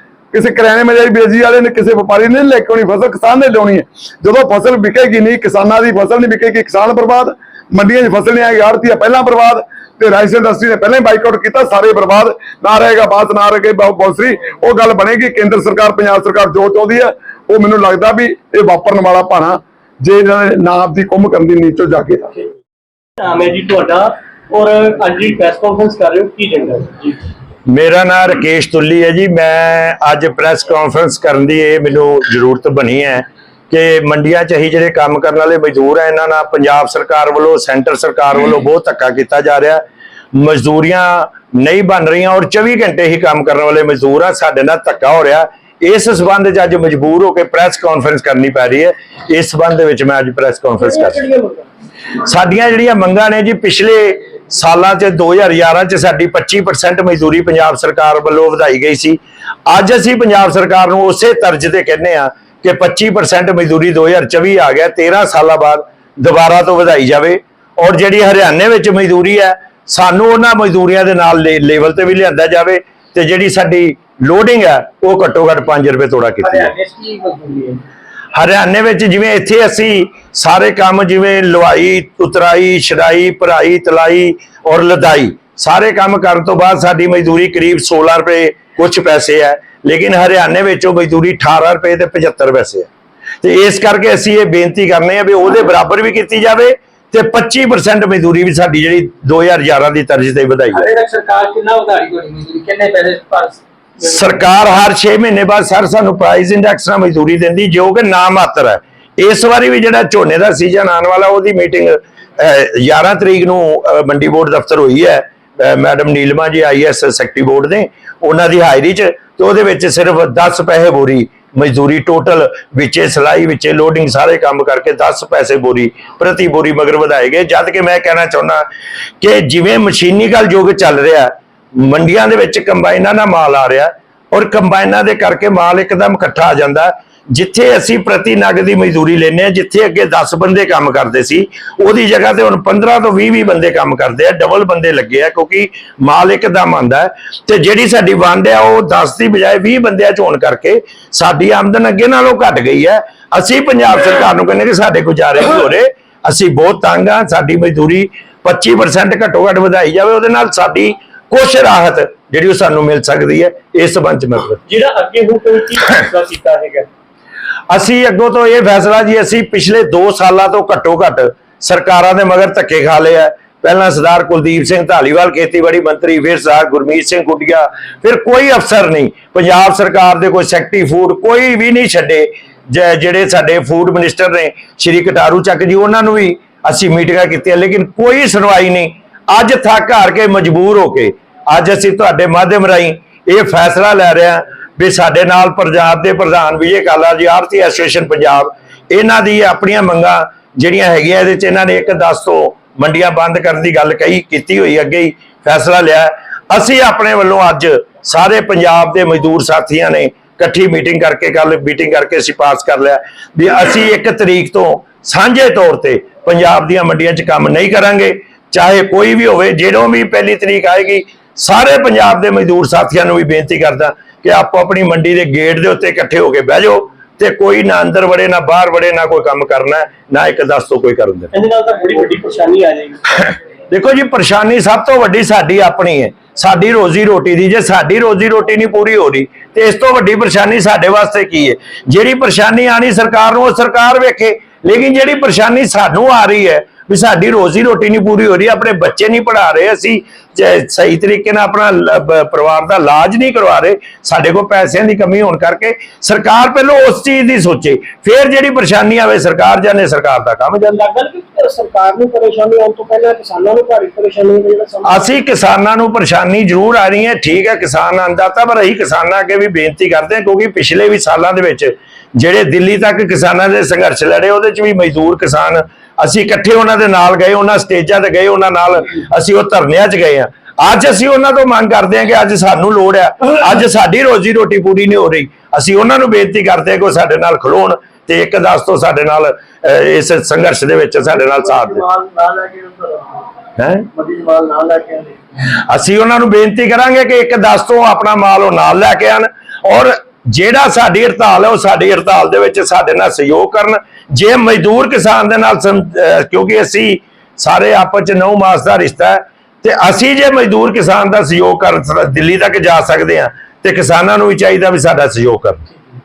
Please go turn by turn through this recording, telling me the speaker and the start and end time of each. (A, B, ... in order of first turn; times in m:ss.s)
0:00.3-0:22.4 A
0:23.2-0:27.2 B
0:27.7-0:51.2 C
0:50.8-0:51.7 B
0:52.2-1:16.7 C
1:16.4-1:17.8 B
1:18.3-1:32.9 C
1:33.4-1:40.8 C
1:40.7-1:44.2 B
1:44.0-2:08.6 C
2:09.2-2:44.6 C
2:44.7-2:46.9 B
2:47.7-3:51.3 C
3:51.3-3:53.0 B
3:53.2-4:20.8 C
4:20.6-4:25.2 B
4:24.8-4:51.9 C
4:51.1-4:53.3 B
4:53.6-4:53.9 C
4:53.9-4:55.2 B
4:55.6-5:15.7 C